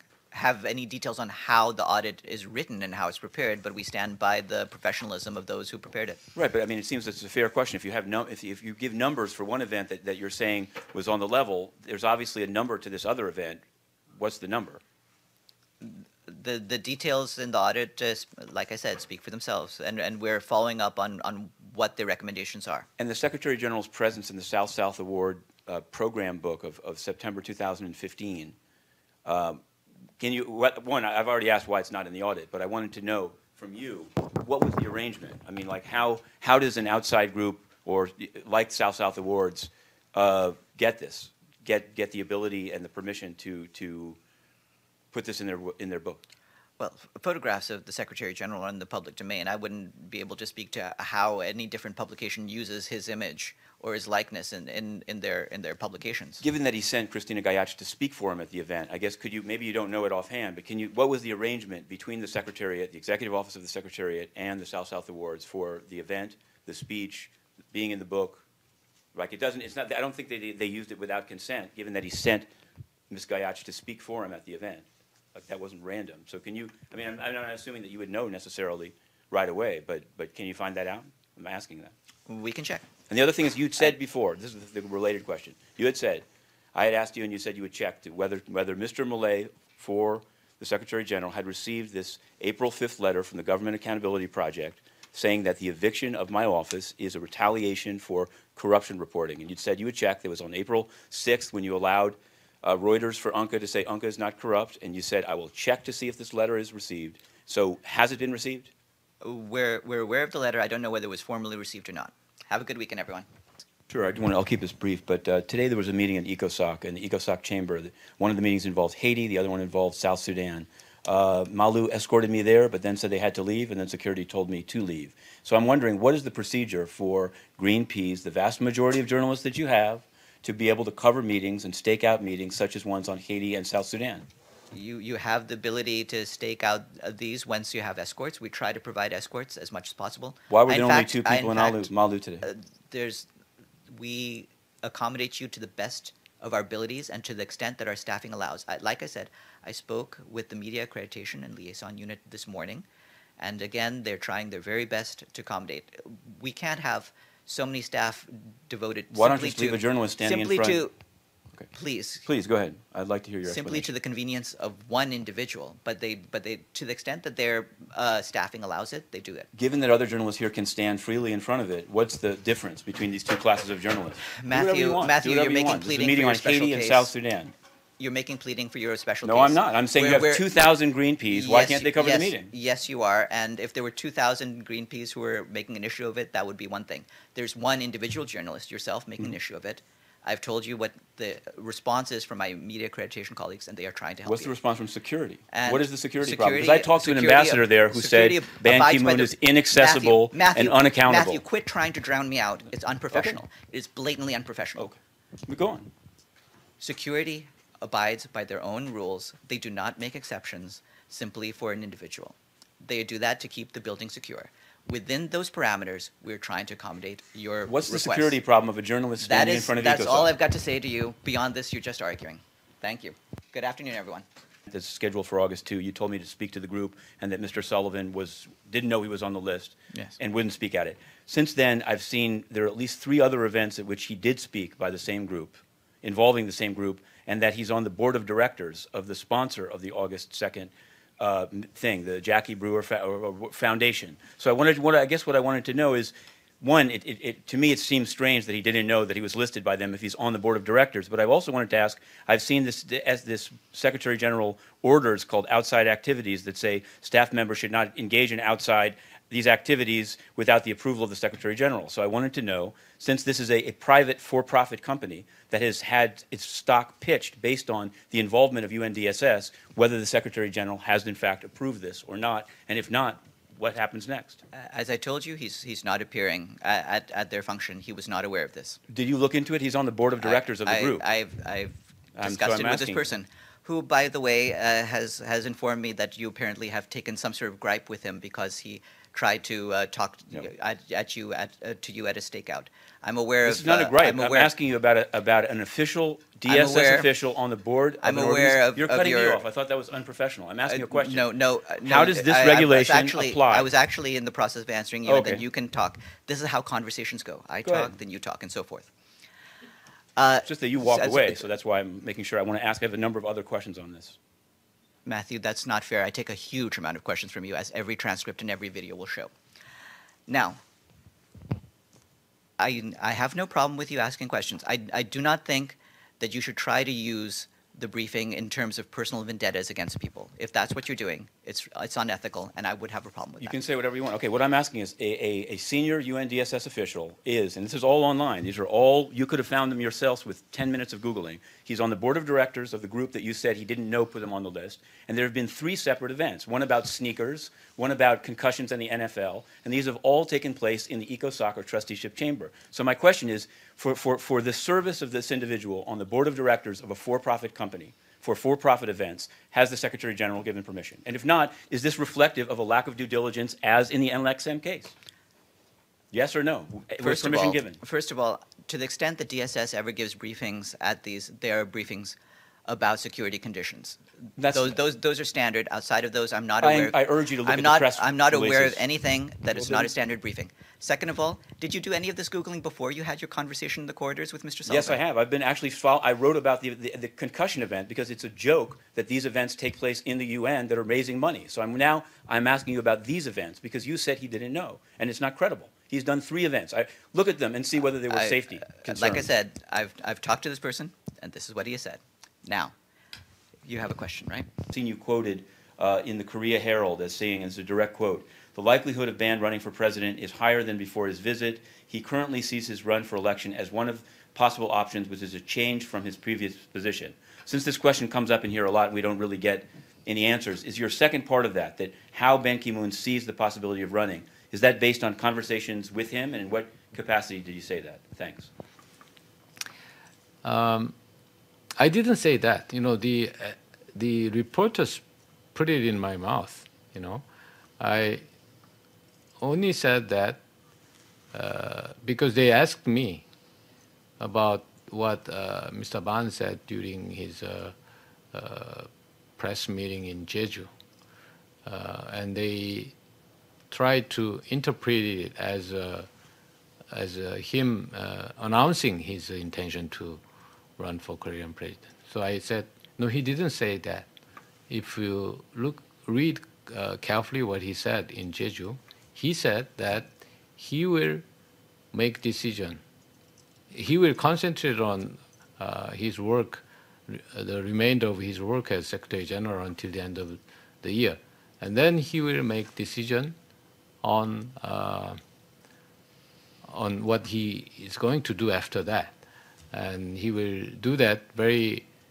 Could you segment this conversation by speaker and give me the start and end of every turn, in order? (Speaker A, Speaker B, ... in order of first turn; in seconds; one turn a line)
Speaker A: 0.3-6.2
Speaker B: 6.3-13.6
Speaker B: 14.2-14.8
Speaker A: 15.8-22.9
Speaker B: 23.0-28.6
Speaker B: 29.2-29.6
Speaker B: 30.2-44.2
Speaker B: 45.1-46.2
Speaker A: 46.8-56.4
Speaker B: 56.4-68.4
Speaker B: 69.1-72.5
Speaker B: 73.1-81.9
Speaker A: 82.3-82.9
Speaker B: 83.1-108.7
Speaker A: 109.2-113.3
Speaker B: 113.9-134.3
Speaker A: 134.7-141.9
Speaker B: 140.5-142.5
Speaker A: 142.4-143.3
Speaker A: 143.9-152.9
Speaker A: 153.4-160.9
Speaker B: 159.1-160.9
Speaker A: 161.7-162.3
Speaker B: 162.2-163.9
Speaker A: 163.4-169.5
Speaker B: 169.6-177.5
Speaker A: 174.4-177.1
Speaker A: 178.0-180.4
Speaker B: 179.2-182.5
Speaker A: 181.3-194.5
Speaker B: 194.3-201.4
Speaker A: 195.5-204.9
Speaker B: 203.1-203.4
Speaker B: 204.8-205.9
Speaker A: 206.8-218.4
Speaker B: 217.7-220.3
Speaker A: 219.2-224.3
Speaker B: 224.7-274.4
Speaker A: 274.5-278.8
Speaker B: 278.9-281.1
Speaker A: 280.2-294.5
Speaker B: 282.2-283.1
Speaker B: 293.4-301.3
Speaker A: 296.5-297.1
Speaker A: 298.0-299.4
Speaker A: 300.7-308.9
Speaker B: 301.8-303.7
Speaker B: 305.1-305.4
Speaker B: 307.6-307.9
Speaker A: 310.2-311.4
Speaker B: 310.4-314.2
Speaker A: 315.1-319.3
Speaker A: 320.3-320.6
Speaker A: 322.6-333.6
Speaker B: 333.4-364.9
Speaker B: 366.1-367.8
Speaker A: 367.0-372.2
Speaker A: 372.7-385.0
Speaker B: 374.4-374.8
Speaker B: 376.6-378.9
Speaker B: 379.5-379.9
Speaker B: 384.7-399.3
Speaker A: 398.1-402.7
Speaker A: 403.7-404.5
Speaker B: 404.7-428.5
Speaker C: 430.4-430.9
Speaker C: 431.8-435.0
Speaker C: 435.5-437.2
Speaker C: 437.8-438.2
Speaker C: 439.4-440.4
Speaker C: 441.3-443.2
Speaker C: 444.2-447.8
Speaker C: 448.3-450.7
Speaker C: 451.6-452.9
Speaker C: 453.7-456.1
Speaker C: 456.9-460.2
Speaker C: 460.8-464.1
Speaker C: 464.7-471.2
Speaker C: 471.9-472.8
Speaker C: 473.7-483.4
Speaker C: 484.0-485.2
Speaker C: 486.6-489.2
Speaker C: 489.7-491.9